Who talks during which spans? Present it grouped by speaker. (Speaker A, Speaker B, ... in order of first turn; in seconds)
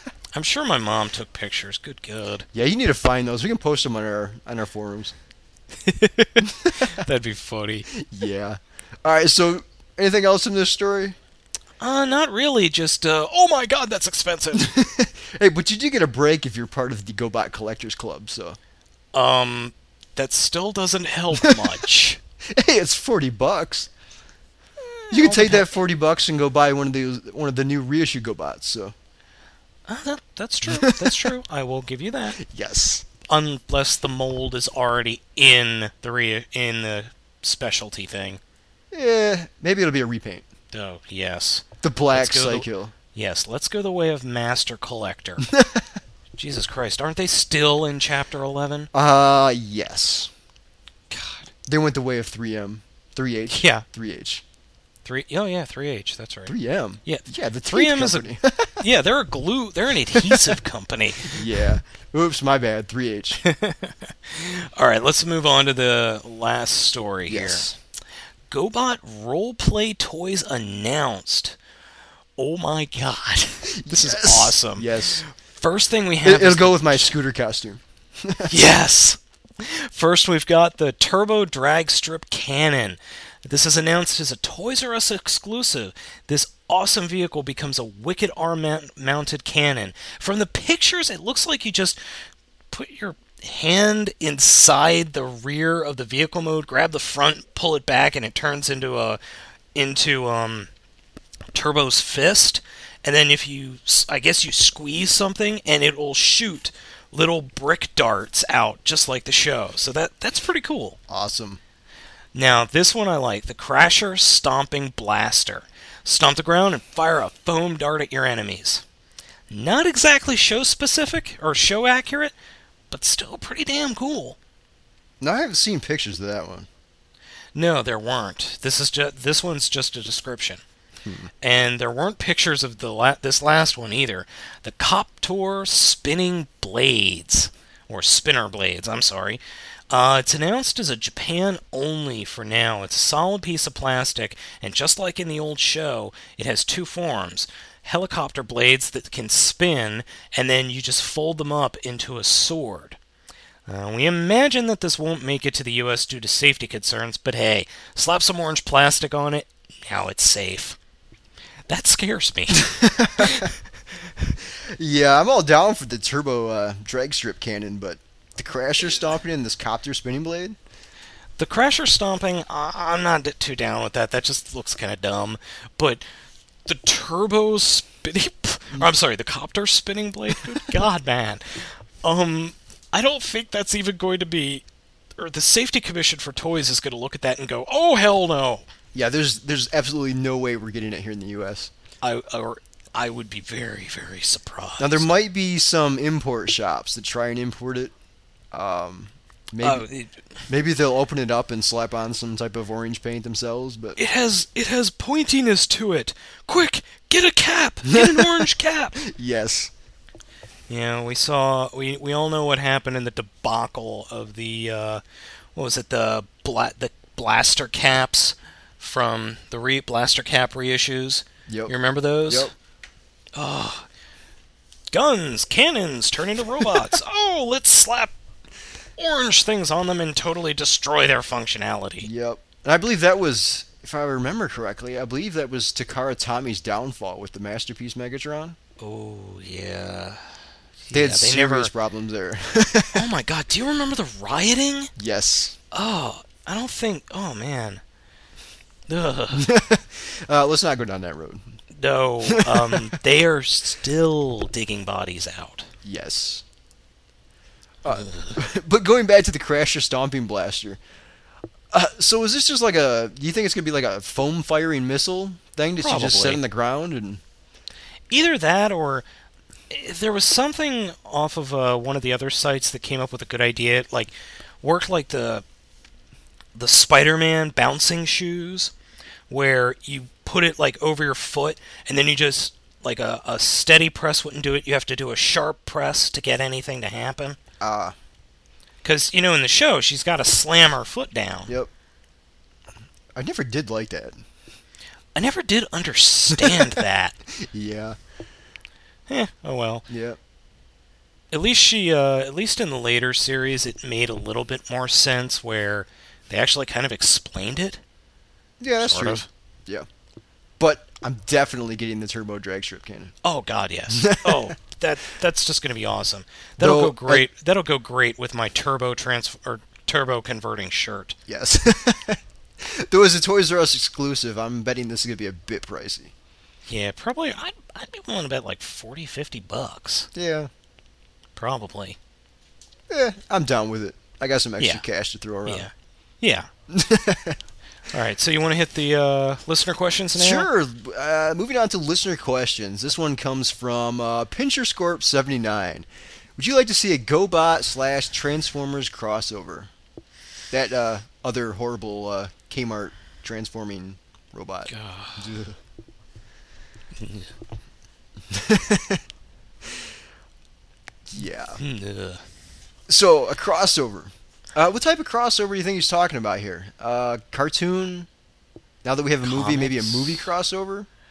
Speaker A: 0.3-2.5, 5.8-7.9, 11.8-14.7, 19.1-22.2, 24.8-25.8, 29.9-32.4, 33.2-38.4, 40.7-45.5, 46.4-48.9, 51.1-51.5, 53.5-53.9, 55.0-58.3, 58.8-61.5, 63.4-67.7, 68.5-71.6, 72.4-77.2, 78.5-92.0, 92.7-99.2, 99.8-100.7, 101.5-111.0, 112.3-118.8, 119.5-122.3, 122.9-124.4, 127.5-130.6, 131.4-153.0, 153.7-160.8, 161.7-163.5, 171.4-176.0, 176.7-184.6, 185.2-188.7, 192.0-195.1, 199.6-200.2, 204.0-209.0, 210.7-215.0, 215.5-222.5, 223.3-223.8, 224.9-228.1, 229.0-232.1, 238.8-240.2, 240.8-241.7, 242.9-244.9, 245.7-247.8, 248.9-249.5, 251.7-255.7, 257.9-258.3, 265.8-266.4, 268.1-269.0, 269.7-275.4, 276.5-278.7, 279.3-287.4, 288.8-291.5, 295.1-297.2, 299.1-299.9, 301.3-307.8, 308.8-309.3, 313.2-321.2, 326.7-330.1, 331.4-332.0, 334.6-334.8, 335.5-336.5, 337.9-340.5, 354.7-355.3, 357.0-357.3, 361.6-362.2, 369.2-370.2
Speaker B: 2.5-5.1, 6.4-7.0, 7.9-11.2, 14.5-18.6, 22.5-23.9, 25.1-28.9, 30.7-31.3, 32.4-33.1, 38.9-40.5, 41.8-42.9, 45.4-45.9, 48.9-50.3, 51.6-54.4, 56.5-58.8, 60.2-60.5, 61.2-63.4, 67.3-67.8, 73.7-75.2, 76.2-78.6, 111.1-111.6, 125.2-126.7, 131.0-131.3, 162.5-163.5, 164.8-170.6, 188.9-191.7, 194.8-197.9, 198.5-199.9, 200.5-204.0, 207.8-209.7, 221.5-221.7, 222.3-222.5, 232.0-238.6, 240.9-243.1, 245.0-245.6, 249.3-251.4, 252.2-252.9, 255.8-256.4, 257.8-260.8, 261.7-267.2, 287.6-287.9, 293.1-294.2, 296.4-296.8, 297.3-298.0, 299.9-300.2, 308.6-309.9, 310.6-313.1, 313.9-314.5, 316.6-317.2, 321.3-326.1, 330.1-330.5, 332.9-335.7, 336.7-337.4, 340.1-349.7, 350.5-355.6, 358.3-359.0, 361.1-361.6, 362.9-368.1, 368.8-370.9